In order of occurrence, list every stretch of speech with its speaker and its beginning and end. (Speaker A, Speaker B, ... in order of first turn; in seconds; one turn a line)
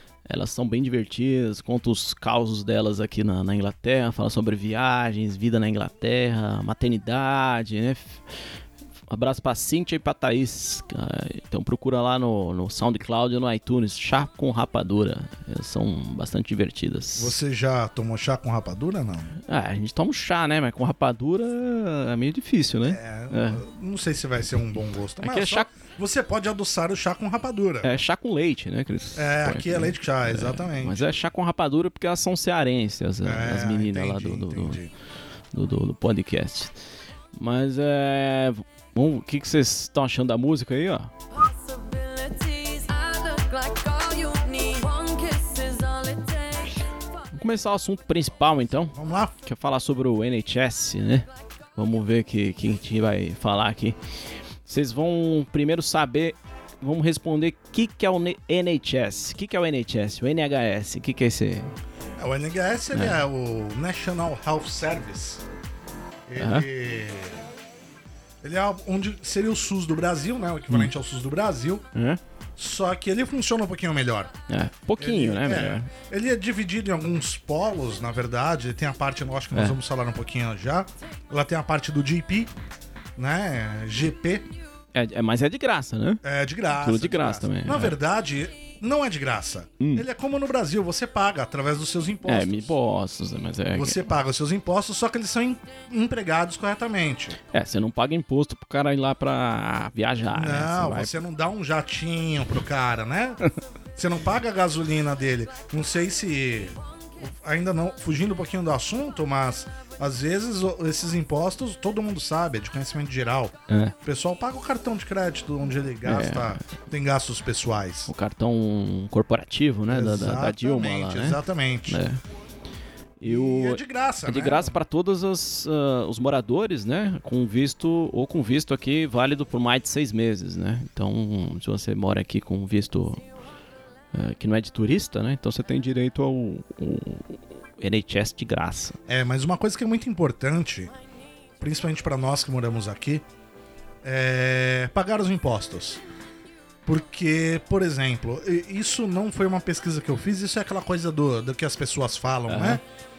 Speaker A: 0.2-8.2
Speaker A: 9.1-17.4
Speaker B: 17.1-19.4
Speaker A: 19.4-23.6
Speaker B: 22.9-27.9
Speaker A: 25.2-25.7
Speaker A: 27.8-34.8
Speaker B: 29.1-31.1
Speaker B: 33.2-34.9
Speaker A: 35.5-36.8
Speaker A: 37.4-41.1
Speaker C: 41.3-46.8
Speaker A: 47.3-54.0
Speaker B: 48.9-49.3
Speaker A: 54.6-61.7
Speaker B: 62.2-65.4
Speaker B: 66.3-67.4
Speaker A: 66.4-66.7
Speaker B: 68.4-71.9
Speaker A: 71.9-72.2
Speaker B: 72.6-74.3
Speaker A: 74.5-75.9
Speaker B: 75.0-82.5
Speaker A: 79.5-79.8
Speaker B: 83.2-84.5
Speaker A: 84.9-88.0
Speaker B: 86.2-92.7
Speaker A: 89.8-90.0
Speaker A: 92.2-94.1
Speaker B: 93.7-97.4
Speaker A: 97.5-101.2
Speaker B: 100.3-103.4
Speaker B: 104.0-118.1
Speaker A: 113.7-113.9
Speaker A: 116.0-116.7
Speaker A: 118.1-122.2
Speaker B: 119.9-122.0
Speaker A: 123.2-133.2
Speaker B: 123.2-124.7
Speaker A: 134.1-139.0
Speaker B: 139.1-140.9
Speaker B: 141.6-143.2
Speaker B: 144.0-146.0
Speaker B: 146.8-152.8
Speaker A: 152.5-152.8